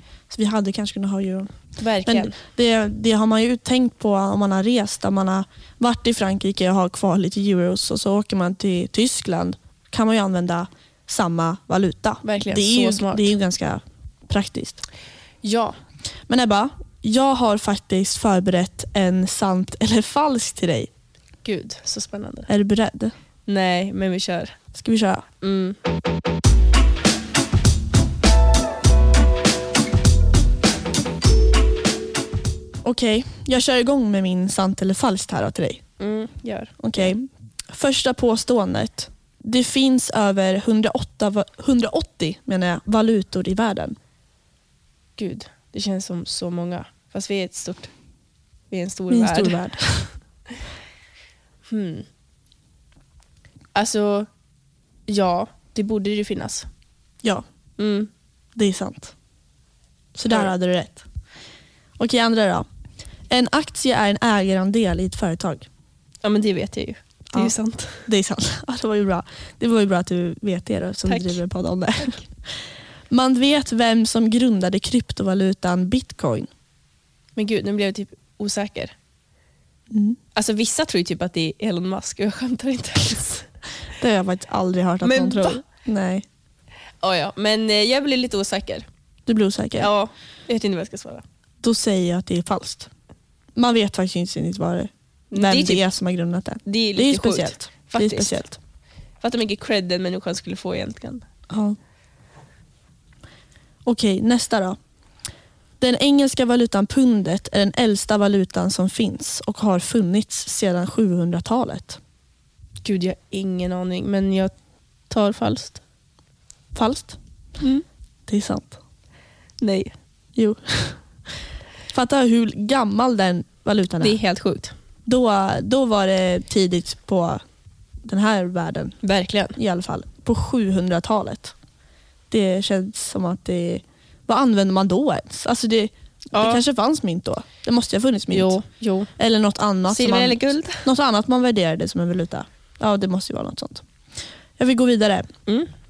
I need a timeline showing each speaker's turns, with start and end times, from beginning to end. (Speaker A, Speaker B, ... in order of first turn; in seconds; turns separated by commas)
Speaker A: 0.3-1.5, Speaker B: 1.8-2.4, Speaker A: 2.0-14.8, Speaker B: 12.2-13.3, Speaker B: 15.4-15.8, Speaker A: 16.3-20.9, Speaker B: 21.4-22.5, Speaker A: 22.5-23.1, Speaker B: 23.4-24.6, Speaker A: 24.7-25.2, Speaker B: 25.4-25.8, Speaker A: 32.8-35.8, Speaker B: 36.0-37.1, Speaker A: 36.8-44.0, Speaker B: 45.2-47.9, Speaker B: 48.7-49.6, Speaker A: 49.1-50.1, Speaker B: 51.7-52.0, Speaker B: 53.7-54.3, Speaker B: 55.1-56.7, Speaker B: 57.8-58.1, Speaker A: 58.5-59.1, Speaker A: 60.1-61.0, Speaker A: 62.0-62.6, Speaker A: 63.3-65.7, Speaker B: 66.2-68.1, Speaker A: 68.1-72.6, Speaker B: 71.0-71.4, Speaker A: 73.1-76.5, Speaker B: 77.3-78.9, Speaker A: 79.9-80.2, Speaker B: 80.3-83.5, Speaker A: 84.0-86.2, Speaker B: 85.0-85.6, Speaker B: 87.0-88.8, Speaker A: 89.3-89.9, Speaker B: 89.8-91.2, Speaker A: 91.6-92.9, Speaker A: 93.5-98.6, Speaker B: 95.3-95.8, Speaker B: 96.6-98.4, Speaker B: 99.2-101.2, Speaker A: 101.5-101.8, Speaker A: 103.8-104.8, Speaker A: 105.8-112.0, Speaker B: 112.8-114.5, Speaker B: 115.1-115.8, Speaker A: 116.7-117.2, Speaker A: 118.3-118.8, Speaker B: 119.6-119.9, Speaker A: 120.3-121.0, Speaker A: 121.9-124.2, Speaker B: 124.0-124.7, Speaker A: 125.0-127.4, Speaker A: 128.0-128.9, Speaker B: 129.0-129.6, Speaker A: 129.6-131.5, Speaker A: 132.3-138.6, Speaker B: 136.3-136.6, Speaker B: 138.3-139.1, Speaker A: 139.2-143.8, Speaker B: 139.9-140.9, Speaker A: 144.6-145.3